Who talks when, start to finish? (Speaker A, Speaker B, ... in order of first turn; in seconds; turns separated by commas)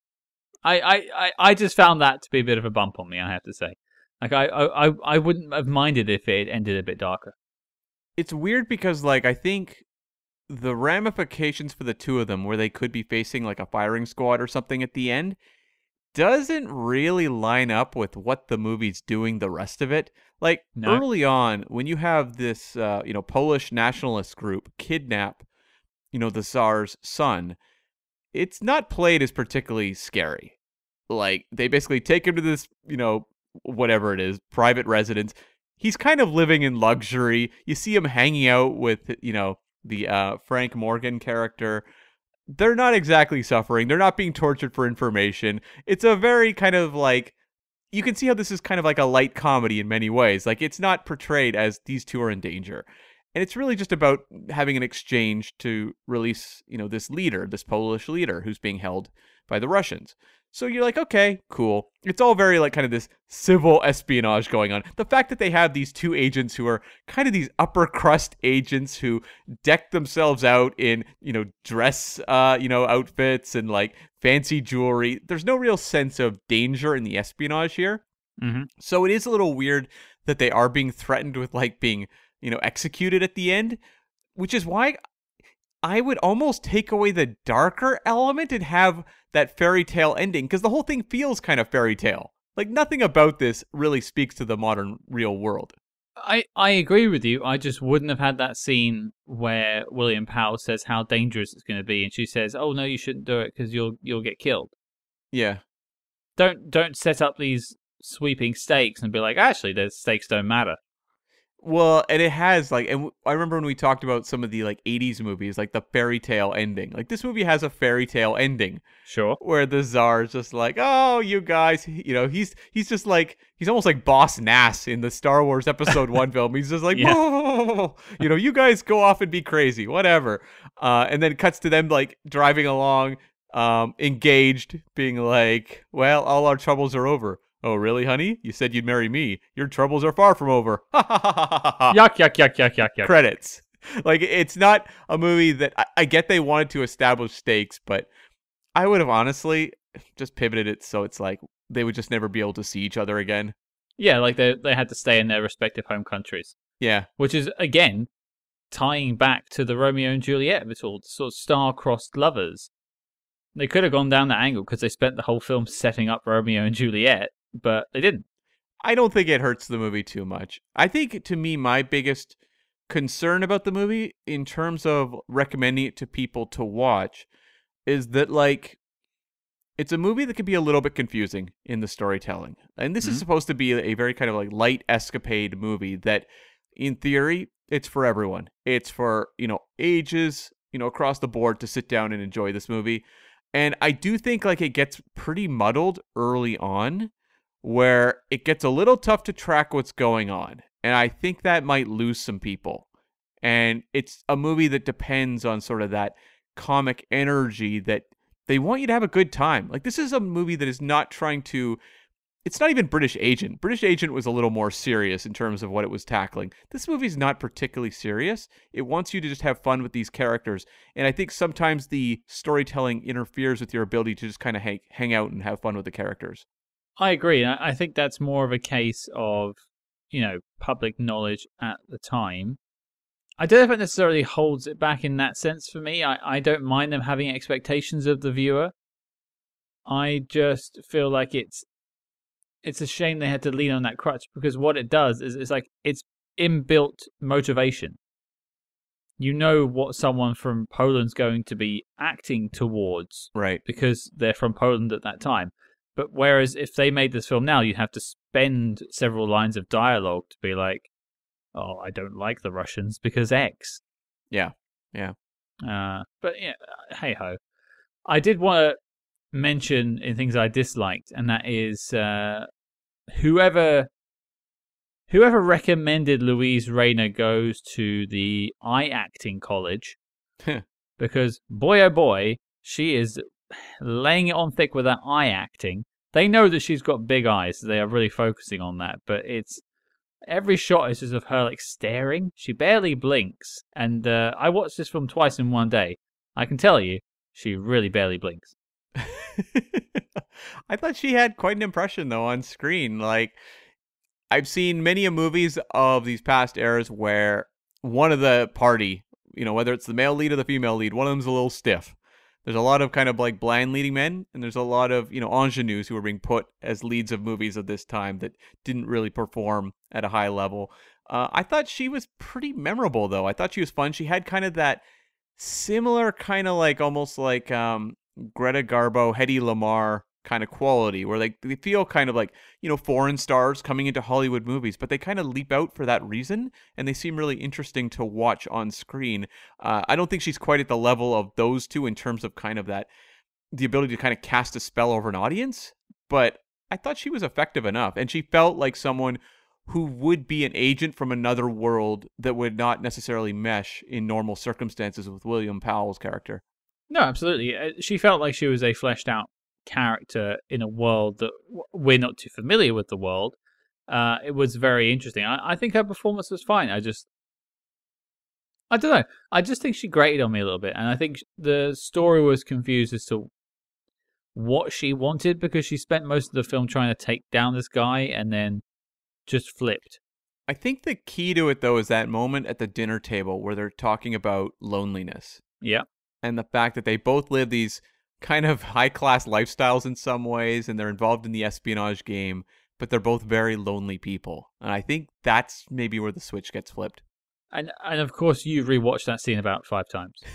Speaker A: 0.6-7.3, Speaker B: 8.2-9.8, Speaker B: 10.5-15.4, Speaker B: 16.1-25.4, Speaker A: 20.8-21.0, Speaker B: 26.1-27.6, Speaker B: 28.3-30.6, Speaker B: 31.1-41.8, Speaker B: 42.5-47.3, Speaker B: 47.9-78.0, Speaker A: 78.4-78.7, Speaker B: 78.8-83.8, Speaker B: 84.3-85.0, Speaker B: 85.8-95.8, Speaker A: 96.2-104.7, Speaker B: 105.3-105.6, Speaker A: 106.4-110.8, Speaker B: 111.6-118.8, Speaker A: 119.0-119.4, Speaker B: 119.4-142.0, Speaker A: 126.9-127.2, Speaker A: 141.9-143.1, Speaker B: 143.0-148.1, Speaker B: 148.7-153.6, Speaker A: 154.0-156.6, Speaker B: 156.8-157.1, Speaker A: 157.2-158.1, Speaker A: 158.7-162.7, Speaker A: 163.6-168.2, Speaker B: 168.8-172.3, Speaker B: 172.9-177.3, Speaker B: 177.9-178.8, Speaker B: 179.8-197.1, Speaker B: 197.6-202.9, Speaker B: 203.4-211.8, Speaker B: 212.4-226.4, Speaker A: 227.0-229.6, Speaker A: 230.1-232.6, Speaker A: 233.4-238.7, Speaker A: 239.9-241.7, Speaker A: 242.6-248.0, Speaker A: 249.2-260.9, Speaker B: 253.3-253.6, Speaker A: 261.6-263.8, Speaker B: 264.3-265.1, Speaker A: 265.6-267.4, Speaker A: 268.1-268.8, Speaker A: 269.3-272.5, Speaker A: 273.1-273.9, Speaker A: 275.1-280.0, Speaker A: 281.0-289.6, Speaker A: 290.3-298.6, Speaker B: 299.0-300.0, Speaker B: 300.7-303.4, Speaker B: 304.3-324.8, Speaker B: 325.4-342.9, Speaker B: 343.5-356.4, Speaker A: 356.9-363.3, Speaker A: 363.9-367.1, Speaker A: 368.7-373.3, Speaker A: 374.3-378.6, Speaker A: 379.3-380.0, Speaker B: 380.5-385.4, Speaker B: 386.2-397.0, Speaker A: 397.5-400.2